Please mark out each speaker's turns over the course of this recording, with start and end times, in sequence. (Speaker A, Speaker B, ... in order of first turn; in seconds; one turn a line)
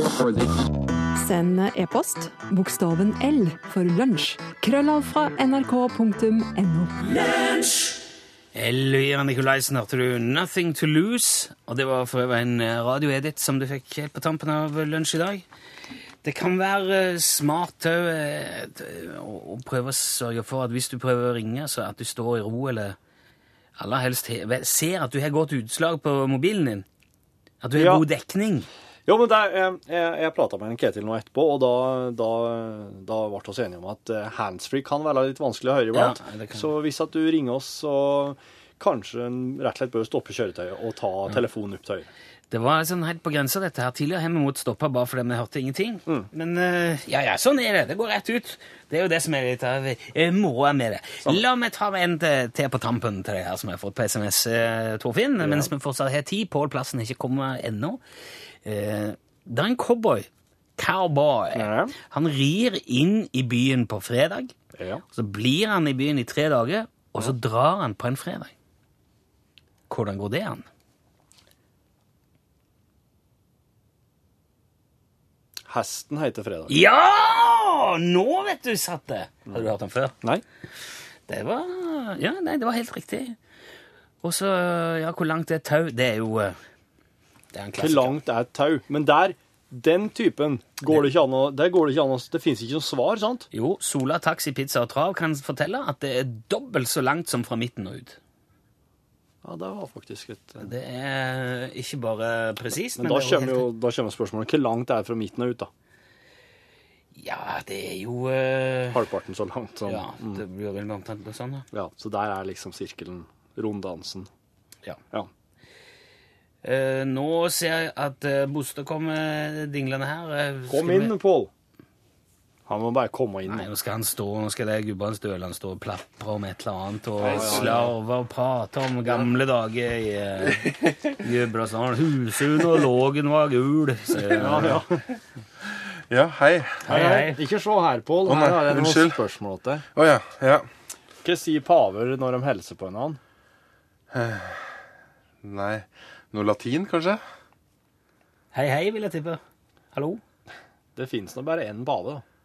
Speaker A: 1.1-7.2
Speaker B: 8.5-15.4
Speaker B: 16.2-23.0
Speaker B: 23.8-26.8
Speaker B: 27.6-28.7
Speaker C: 27.8-28.0
Speaker C: 29.1-42.1
Speaker B: 35.9-36.7
Speaker B: 42.5-58.0
Speaker C: 55.4-55.7
Speaker B: 58.6-64.5
Speaker C: 61.5-61.9
Speaker C: 64.8-65.0
Speaker B: 65.1-68.5
Speaker B: 69.9-70.7
Speaker C: 75.7-76.8
Speaker B: 76.7-80.2
Speaker B: 81.3-83.4
Speaker B: 84.2-86.6
Speaker B: 87.5-88.2
Speaker C: 87.8-93.5
Speaker B: 93.5-98.2
Speaker C: 99.4-100.6
Speaker B: 100.6-103.7
Speaker C: 103.0-105.7
Speaker B: 107.2-109.0
Speaker C: 108.9-110.4
Speaker B: 109.8-111.7
Speaker C: 111.7-114.3
Speaker B: 116.6-121.1
Speaker C: 120.7-121.5
Speaker C: 122.7-123.7
Speaker B: 123.5-134.8
Speaker C: 127.2-127.9
Speaker D: 130.5-131.1
Speaker C: 134.4-135.0
Speaker D: 136.1-136.8
Speaker B: 136.8-137.4
Speaker C: 136.9-139.8
Speaker D: 138.2-139.2
Speaker D: 139.9-140.7
Speaker C: 141.2-143.2
Speaker D: 144.1-144.7
Speaker D: 145.4-147.2
Speaker B: 148.5-149.4
Speaker B: 149.9-150.2
Speaker C: 150.9-152.2